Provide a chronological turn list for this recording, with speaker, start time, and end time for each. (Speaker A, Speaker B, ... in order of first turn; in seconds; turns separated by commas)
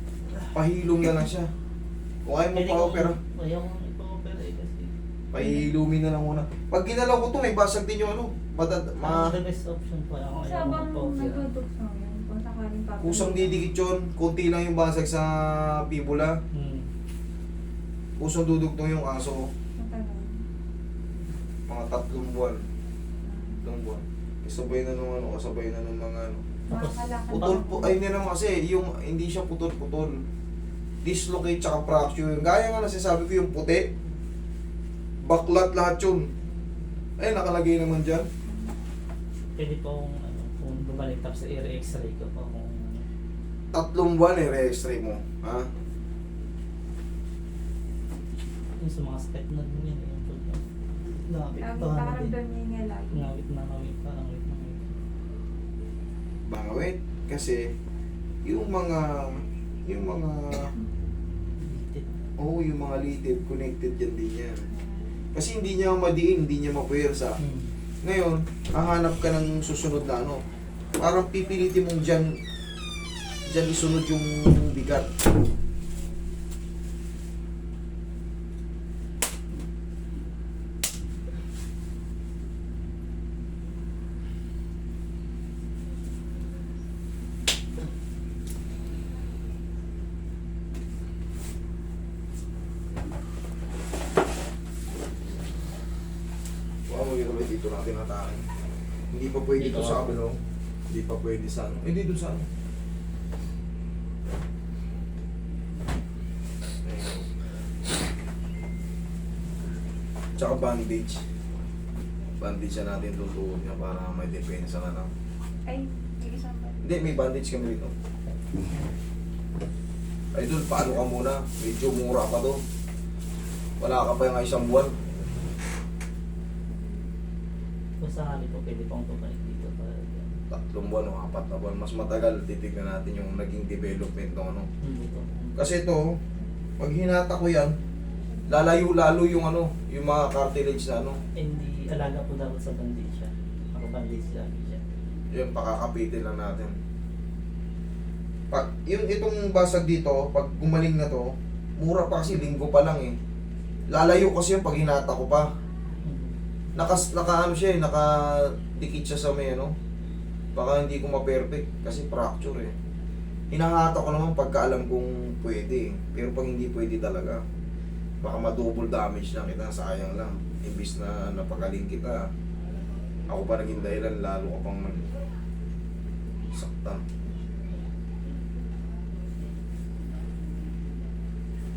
Speaker A: 0.5-1.5, Speaker A: 2.2-3.2, Speaker B: 2.5-4.9, Speaker A: 5.3-9.3, Speaker B: 9.0-11.5, Speaker C: 10.4-13.7, Speaker A: 13.0-16.3, Speaker B: 16.5-16.9, Speaker A: 18.2-19.5, Speaker C: 19.8-20.3, Speaker A: 21.7-22.6, Speaker C: 23.2-23.7, Speaker A: 23.6-26.4, Speaker C: 26.7-28.1, Speaker B: 26.7-27.4, Speaker A: 27.3-30.1, Speaker A: 31.0-33.9, Speaker A: 35.2-36.2, Speaker A: 37.2-38.2, Speaker C: 38.4-38.8, Speaker B: 39.6-43.0, Speaker A: 43.7-45.7, Speaker B: 48.8-50.7, Speaker B: 51.2-52.3, Speaker C: 51.6-53.3, Speaker B: 53.1-54.9, Speaker A: 56.5-57.7, Speaker A: 58.4-60.7, Speaker B: 61.5-62.1, Speaker A: 62.4-64.7, Speaker A: 65.3-67.4, Speaker B: 67.4-67.7, Speaker A: 68.0-70.4, Speaker A: 71.0-72.3, Speaker A: 73.5-75.1, Speaker A: 96.9-98.5, Speaker A: 99.1-100.4, Speaker B: 99.6-100.0, Speaker A: 100.9-102.5, Speaker A: 106.8-107.3, Speaker A: 110.4-111.2, Speaker A: 112.4-115.1, Speaker C: 115.7-116.9, Speaker A: 116.8-117.9, Speaker A: 120.3-122.6, Speaker A: 123.8-124.9, Speaker B: 128.0-130.3, Speaker A: 130.5-134.7, Speaker B: 134.8-135.6, Speaker A: 135.6-136.0, Speaker A: 136.8-137.7, Speaker A: 138.5-141.2, Speaker B: 141.3-144.8, Speaker A: 145.3-146.7, Speaker A: 148.5-153.1, Speaker A: 153.9-155.4, Speaker B: 156.0-156.9, Speaker A: 156.8-159.7, Speaker A: 160.5-162.7, Speaker A: 163.5-167.4, Speaker A: 168.2-172.2, Speaker A: 173.3-175.1, Speaker A: 176.5-177.0